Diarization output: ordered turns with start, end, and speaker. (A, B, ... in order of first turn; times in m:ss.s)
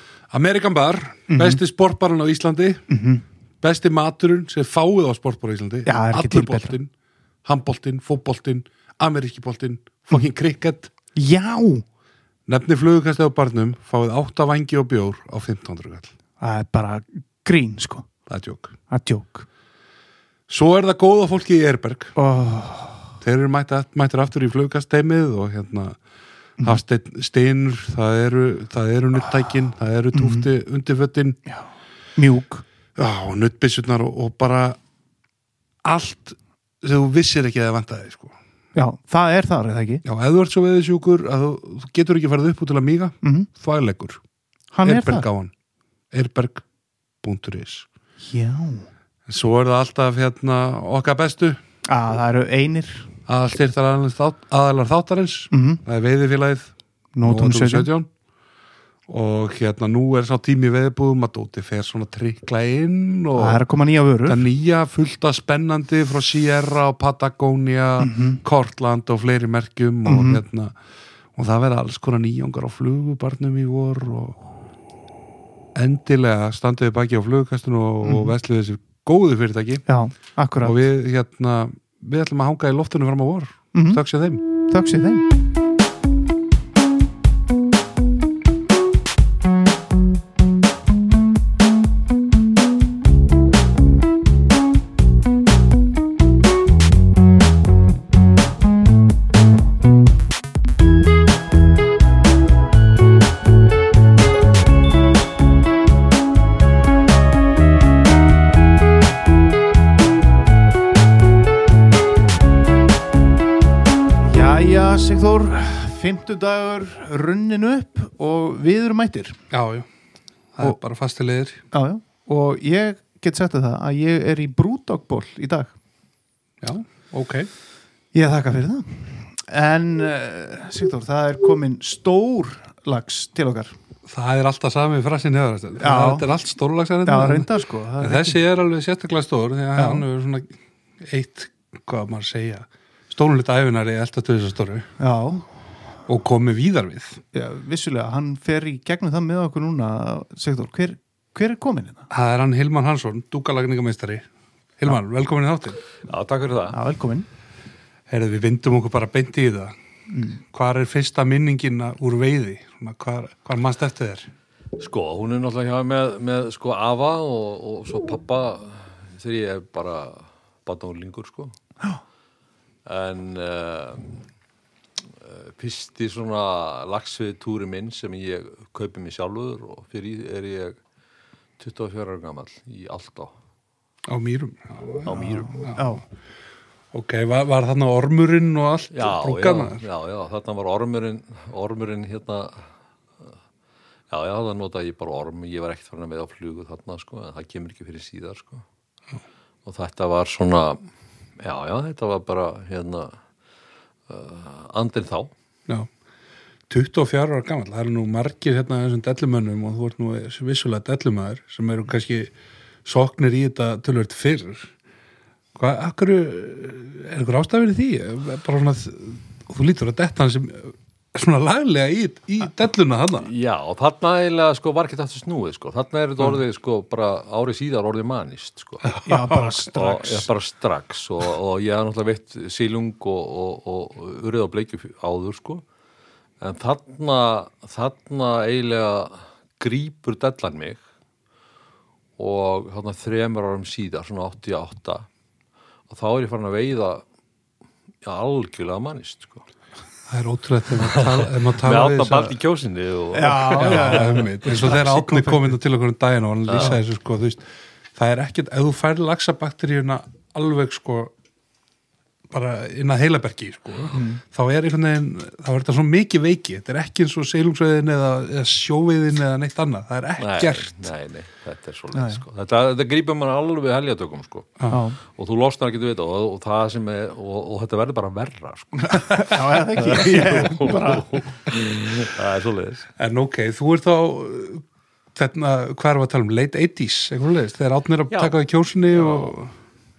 0:00.3-0:02.8 A
0:01.3-0:01.6 B
0:02.9-0:03.2 B
0:03.6-0:06.9 A
0:05.8-0:06.7 B
0:07.4-0:10.9 A
0:11.2-0:11.8 B
0:12.5-0:16.1 A
0:16.4-0:18.1 B
0:18.3-0:18.7 A
0:18.9-0:19.5 B
0:20.5-0:22.1 A
0:22.2-0:23.1 B
0:23.2-0:26.0 A
0:26.6-0:31.4 A
0:30.1-0:30.5 B
0:31.5-0:32.6 B
0:33.0-0:34.8 A
0:35.8-0:38.4 A
0:38.7-0:40.0 B
0:40.0-0:44.2 A
0:43.2-0:43.5 B
0:44.7-0:45.3 B
0:44.8-0:45.5 A
0:46.1-0:46.6 A
0:47.2-0:47.9 A
0:48.2-0:48.9 B
0:49.3-0:51.6 A
0:51.8-0:53.1 B
0:53.3-0:58.1 A
0:55.5-0:55.8 B
0:57.1-0:57.9 B
0:59.1-1:03.6 A
1:03.3-1:04.4 B
1:04.2-1:10.8 A
1:08.0-1:08.4 B
1:10.0-1:10.4 B
1:11.3-1:14.4 A
1:15.8-1:19.9 A
1:18.0-1:18.3 B
1:19.9-1:20.8 B
1:20.6-1:24.4 A
1:23.7-1:24.0 B
1:24.6-1:25.3 B
1:54.2-1:59.4 B
1:59.5-1:59.9 A
2:00.5-2:01.6 A
2:01.7-2:05.8 B
2:06.6-2:07.5 A
2:08.1-2:13.8 B
2:14.1-2:24.9 A
2:15.8-2:16.3 B
2:17.0-2:18.4 B
2:19.8-2:20.0 B
2:25.0-2:25.5 B
2:26.1-2:27.2 A
2:27.3-2:32.1 B
2:32.1-2:34.3 A
2:34.8-2:35.8 A
2:36.1-2:36.8 C
2:36.7-2:37.3 B
2:38.1-2:39.8 A
2:40.1-2:40.4 B
2:40.5-2:44.3 A
2:44.8-2:51.5 C
2:52.8-2:54.2 C
2:55.2-3:00.8 C
3:01.6-3:03.3 C
3:04.1-3:05.8 A
3:05.0-3:05.6 C
3:05.7-3:06.0 B
3:06.9-3:09.8 A
3:08.9-3:12.7 C
3:14.1-3:18.6 C
3:19.6-3:20.8 C
3:21.4-3:23.2 C
3:24.1-3:25.3 C
3:26.7-3:32.3 A
3:32.8-3:34.7 A
3:35.5-3:43.3 A
3:43.2-3:49.0 C
3:48.9-3:49.4 A
3:49.0-3:50.3 B
3:49.6-3:55.6 C
3:56.4-4:00.8 C
4:02.2-4:05.1 C
4:05.9-4:07.0 C
4:08.0-4:09.5 C
4:10.1-4:12.3 A
4:10.8-4:14.7 C
4:13.1-4:15.3 B
4:13.6-4:21.1 A
4:16.5-4:16.8 C
4:22.3-4:30.9 A
4:23.9-4:24.2 B
4:30.2-4:42.9 C
4:31.9-4:32.2 B
4:34.7-4:35.0 B
4:38.8-4:41.2 B
4:43.0-4:49.5 A
4:48.9-4:49.4 C